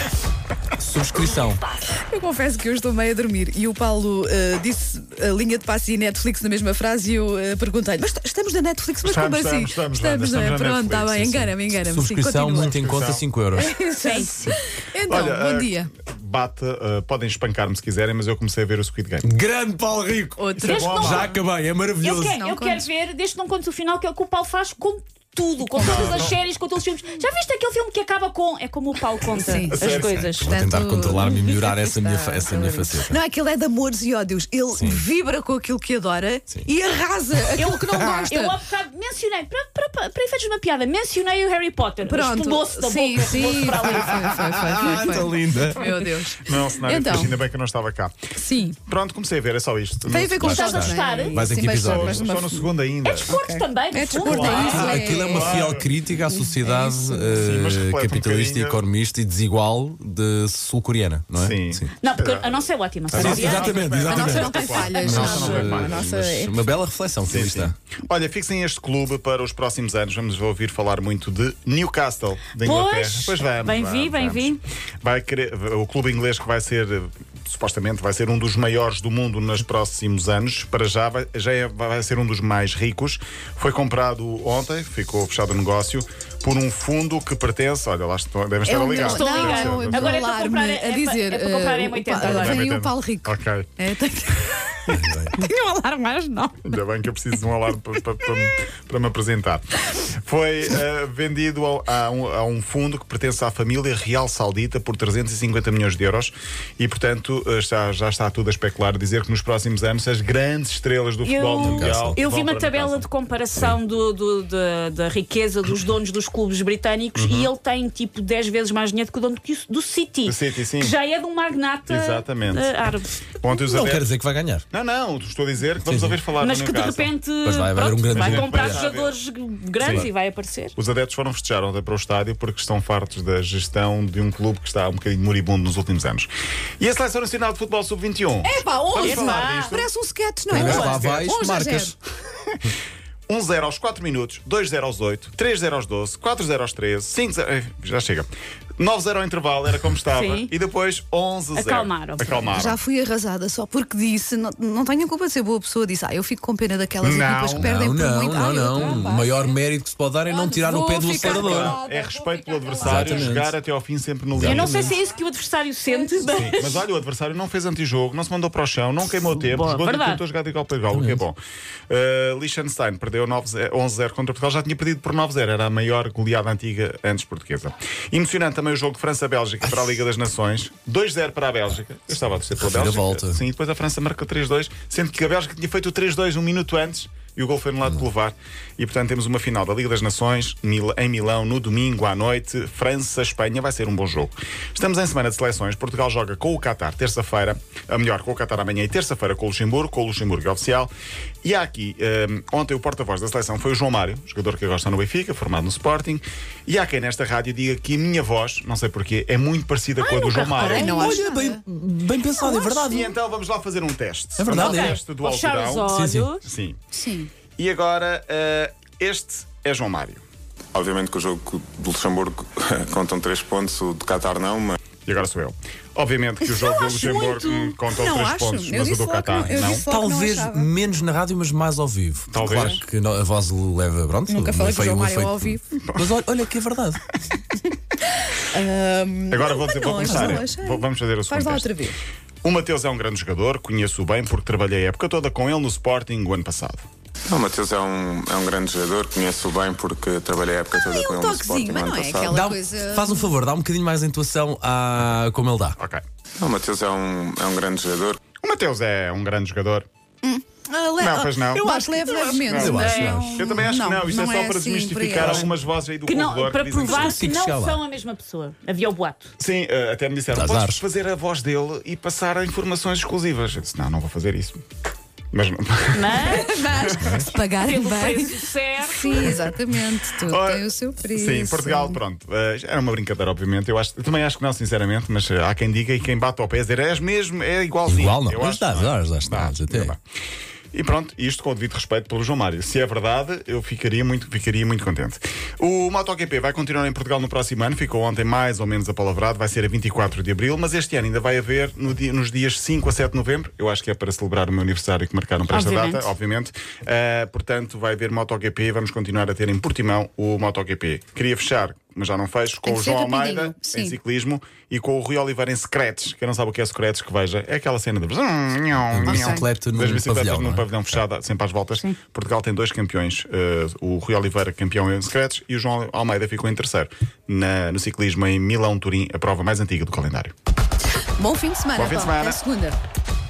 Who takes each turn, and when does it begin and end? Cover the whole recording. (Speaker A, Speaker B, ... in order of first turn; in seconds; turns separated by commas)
Speaker A: 0.8-1.6, Speaker B: 2.1-12.8, Speaker C: 9.0-11.6, Speaker A: 11.9-13.7, Speaker C: 12.6-13.2, Speaker B: 13.6-15.9, Speaker D: 14.0-14.5, Speaker C: 15.0-19.3, Speaker A: 19.2-22.4, Speaker B: 20.4-21.4, Speaker D: 20.6-21.3, Speaker C: 20.6-21.3, Speaker D: 22.0-30.5, Speaker B: 22.2-22.9, Speaker B: 25.7-26.3, Speaker C: 25.8-26.4, Speaker B: 29.3-29.8, Speaker C: 29.7-30.2, Speaker A: 29.8-33.2, Speaker B: 30.4-38.5, Speaker A: 34.7-35.0, Speaker D: 37.6-44.2, Speaker B: 42.0-47.4, Speaker A: 44.2-45.9, Speaker C: 46.4-48.2, Speaker B: 48.4-48.8, Speaker C: 48.8-50.4, Speaker B: 50.1-52.7, Speaker A: 50.1-52.2, Speaker D: 50.4-51.3, Speaker C: 51.7-53.4, Speaker D: 53.0-55.0, Speaker B: 53.2-57.4, Speaker C: 54.1-55.9, Speaker A: 54.5-61.9, Speaker C: 57.4-58.8, Speaker C: 61.4-66.1, Speaker D: 62.0-64.9, Speaker A: 63.1-67.7, Speaker B: 63.4-66.6, Speaker C: 67.3-90.2, Speaker D: 72.6-74.6, Speaker B: 88.6-96.7, Speaker D: 89.0-92.6, Speaker C: 92.2-93.7, Speaker A: 94.9-95.3, Speaker C: 96.7-113.1, Speaker D: 111.2-123.3, Speaker A: 111.6-112.2, Speaker C: 117.2-117.5, Speaker C: 120.2-120.9, Speaker C: 121.9-122.7, Speaker C: 123.4-124.1, Speaker A: 123.6-124.6, Speaker C: 124.7-127.1, Speaker A: 125.8-126.2, Speaker D: 126.4-130.7, Speaker A: 127.4-128.8, Speaker C: 128.1-129.2, Speaker C: 129.8-130.1, Speaker C: 130.8-136.3, Speaker C: 136.8-139.9, Speaker B: 138.4-141.9, Speaker D: 139.0-139.7, Speaker A: 140.5-141.9, Speaker D: 140.5-141.0, Speaker C: 143.3-152.8, Speaker D: 150.1-150.5, Speaker D: 151.5-152.5, Speaker B: 152.5-159.5, Speaker C: 157.0-157.7, Speaker A: 157.5-161.8, Speaker B: 160.3-163.3, Speaker C: 161.2-164.9, Speaker A: 162.8-163.5, Speaker A: 164.3-164.9, Speaker D: 164.4-166.8, Speaker B: 164.7-165.1, Speaker B: 165.9-166.6, Speaker C: 166.3-200.9, Speaker D: 169.2-170.2, Speaker A: 170.9-171.2, Speaker A: 182.5-183.4, Speaker C: 201.4-211.0, Speaker D: 210.0-211.1, Speaker B: 210.6-211.6, Speaker A: 210.8-213.1, Speaker C: 212.4-215.9, Speaker A: 214.3-215.0, Speaker D: 214.5-216.4, Speaker A: 215.9-216.3, Speaker C: 216.4-216.8, Speaker B: 216.9-217.3, Speaker C: 217.6-220.2, Speaker E: 220.7-224.8, Speaker C: 225.0-229.8, Speaker B: 226.4-230.7, Speaker A: 229.4-237.0, Speaker C: 232.3-232.8, Speaker B: 234.3-235.6, Speaker C: 235.8-236.1, Speaker B: 238.1-242.0, Speaker C: 239.3-241.7, Speaker A: 240.0-240.4, Speaker C: 242.4-246.8, Speaker E: 247.3-252.4, Speaker B: 250.7-253.3, Speaker A: 252.3-255.8, Speaker E: 256.4-258.2, Speaker C: 258.4-259.9, Speaker B: 260.2-265.5, Speaker C: 261.0-267.3, Speaker A: 262.5-263.6, Speaker D: 262.7-263.2, Speaker A: 265.1-265.5, Speaker D: 266.1-269.3, Speaker A: 266.8-267.8, Speaker C: 269.4-274.6, Speaker A: 270.3-270.8, Speaker C: 275.3-277.2, Speaker D: 275.9-276.6, Speaker B: 276.1-282.0, Speaker A: 277.0-277.3, Speaker D: 277.6-279.4, Speaker C: 280.2-290.0, Speaker A: 287.9-289.9, Speaker C: 290.7-330.3, Speaker D: 305.5-306.1, Speaker B: 312.6-314.0, Speaker A: 318.9-321.0, Speaker B: 319.1-319.4, Speaker B: 331.2-332.8, Speaker C: 331.7-332.4